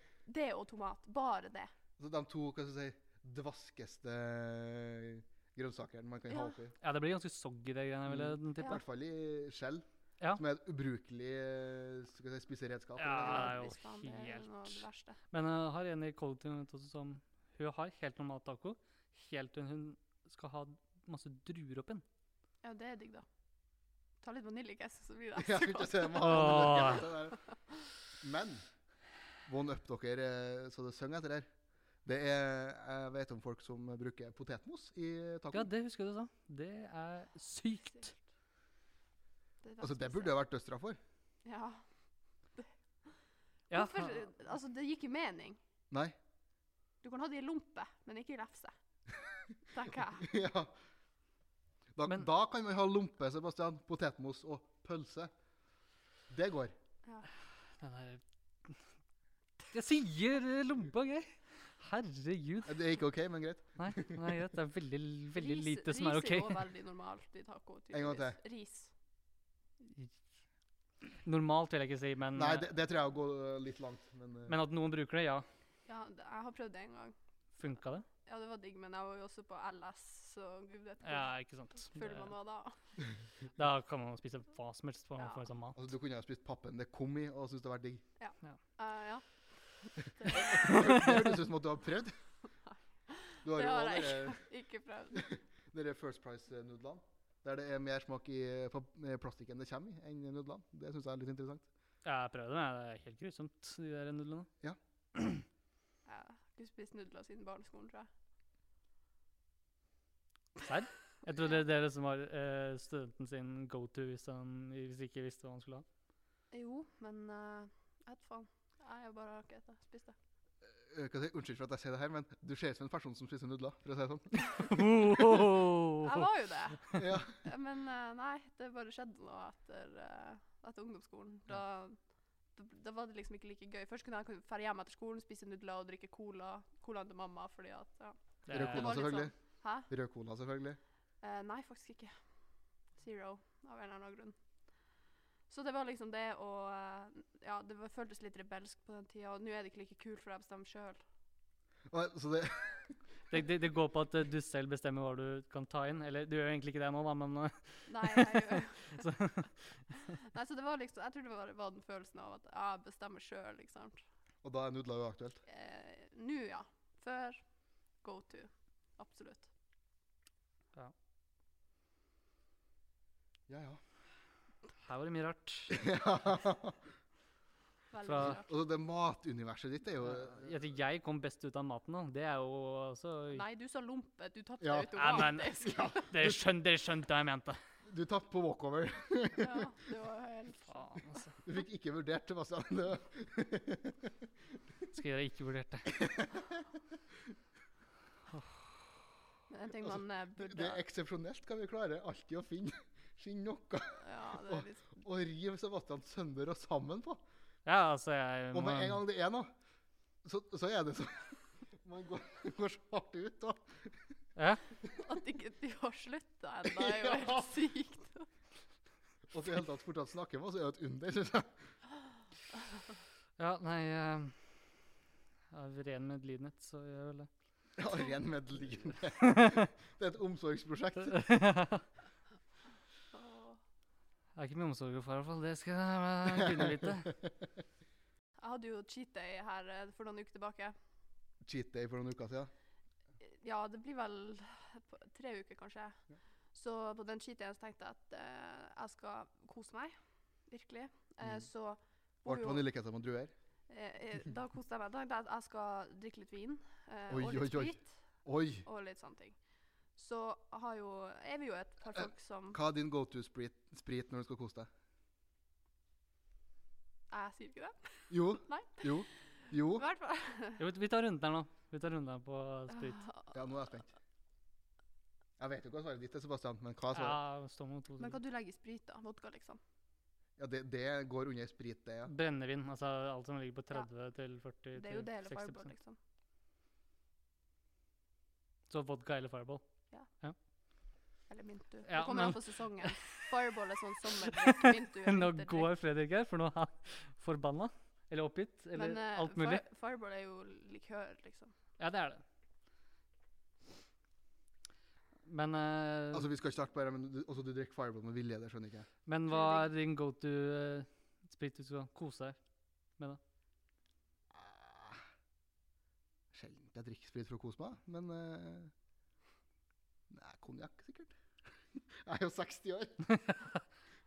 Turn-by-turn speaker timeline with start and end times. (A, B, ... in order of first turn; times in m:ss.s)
0:00.2-0:01.7 A
0:02.0-0:06.7 B
0:06.3-0:06.6 A
0:06.8-0:08.8 C
0:08.1-0:13.6 B
0:13.0-0:22.0 C
0:13.2-0:15.2 A
0:22.6-0:23.2 A
0:24.2-0:27.0 A
0:25.4-0:27.4 B
0:26.2-0:27.1 C
0:28.2-0:28.6 B
0:29.4-0:31.5 B
0:32.0-0:35.7 B
0:35.5-0:38.1 C
0:39.6-0:40.3 A
0:39.8-0:41.0 B
0:41.4-0:41.8 A
0:42.5-0:43.1 A
0:43.7-0:44.2 C
0:43.7-0:45.6 A
0:47.0-0:48.7 A
0:49.7-0:50.3 A
0:50.2-0:50.7 B
0:52.0-0:55.3 B
0:56.3-0:56.7 B
0:57.8-0:58.8 C
0:59.7-1:02.8 C
1:02.6-1:04.4 B
1:03.8-1:06.6 C
1:05.3-1:08.9 A
1:07.9-1:08.4 B
1:09.8-1:10.1 C
1:11.2-1:12.7 C
1:12.3-1:14.6 B
1:14.5-1:15.5 C
1:15.9-1:17.1 A
1:17.6-1:18.0 C
1:18.2-1:21.3 A
1:21.0-1:22.3 C
1:21.9-1:22.8 A
1:23.6-1:25.8 C
1:25.7-1:28.0 B
1:28.2-1:29.2 A
1:30.0-1:30.7 A
1:30.3-1:32.2 B
1:30.6-1:31.3 C
1:33.1-1:35.2 A
1:33.4-1:34.4 B
1:35.1-1:41.6 B
1:42.0-1:44.5 C
1:45.1-1:45.4 C
1:46.0-1:48.1 A
1:50.6-1:55.8 C
1:56.5-2:00.2 A
2:00.6-2:04.8 B
2:04.6-2:06.2 C
2:06.0-2:12.0 A
2:06.9-2:07.4 B
2:12.5-2:19.9 A
2:18.5-2:19.0 C
2:18.5-2:19.3 B
2:19.9-2:20.8 B
2:21.2-2:22.2 A
2:23.0-2:24.3 A
2:25.5-2:31.0 A
2:31.9-2:33.0 B
2:33.3-2:39.8 C
2:37.9-2:39.0 A
2:40.2-2:44.0 A
2:44.4-2:45.4 B
2:45.4-2:47.4 A
2:48.0-2:49.5 A
2:53.5-2:53.8 B
2:54.8-2:55.8 C
2:55.7-2:56.8 B
2:57.9-2:58.5 A
2:58.0-2:58.4 C
2:58.2-3:00.5 B
3:00.0-3:03.4 C
3:03.3-3:06.1 A
3:04.6-3:06.4 B
3:04.9-3:07.6 C
3:07.8-3:09.7 B
3:09.4-3:11.0 A
3:10.7-3:11.3 C
3:11.4-3:14.1 B
3:14.9-3:15.9 C
3:15.9-3:16.6 B
3:18.3-3:18.6 C
3:19.5-3:20.8 A
3:19.8-3:27.2 B
3:24.0-3:25.0 A
3:27.6-3:29.0 C
3:28.5-3:29.5 B
3:30.2-3:34.0 B
3:34.4-3:34.6 C
3:34.9-3:38.3 A
3:36.7-3:37.5 B
3:39.3-3:41.7 B
3:43.4-3:44.8 C
3:45.5-3:47.3 C
3:47.8-3:51.2 B
3:49.2-3:49.7 C
3:51.0-3:51.8 C
3:53.1-3:53.6 A
3:54.4-3:57.2 C
3:58.4-4:00.8 A
4:01.4-4:02.5 B
4:03.2-4:06.0 A
4:06.5-4:09.9 A
4:10.5-4:12.6 A
4:12.2-4:13.3 B
4:13.7-4:18.0 A
4:17.1-4:18.6 B
4:18.6-4:19.4 A
4:20.0-4:22.6 A
4:21.9-4:24.7 B
4:27.1-4:28.9 A
4:28.1-4:29.8 B
4:29.7-4:30.6 A
4:30.6-4:33.0 C
4:32.7-4:33.3 A
4:33.3-4:33.9 B
4:35.4-4:37.2 B
4:36.9-4:38.2 C
4:38.0-4:39.6 A
4:40.4-4:42.1 B
4:42.1-4:45.7 C
4:44.7-4:46.0 A
4:48.7-4:50.4 C
4:51.3-4:55.7 A
4:51.9-4:53.2 C
4:54.2-4:59.6 C
4:58.7-5:01.5 A
5:01.8-5:02.2 C
5:05.2-5:06.3 C
5:06.1-5:08.9 B
5:09.0-5:12.4 C
5:09.3-5:09.7 A
5:14.3-5:15.0 B
5:16.3-5:18.7 B
5:20.1-5:21.2 B
5:21.7-5:23.0 B
5:23.1-5:23.6 C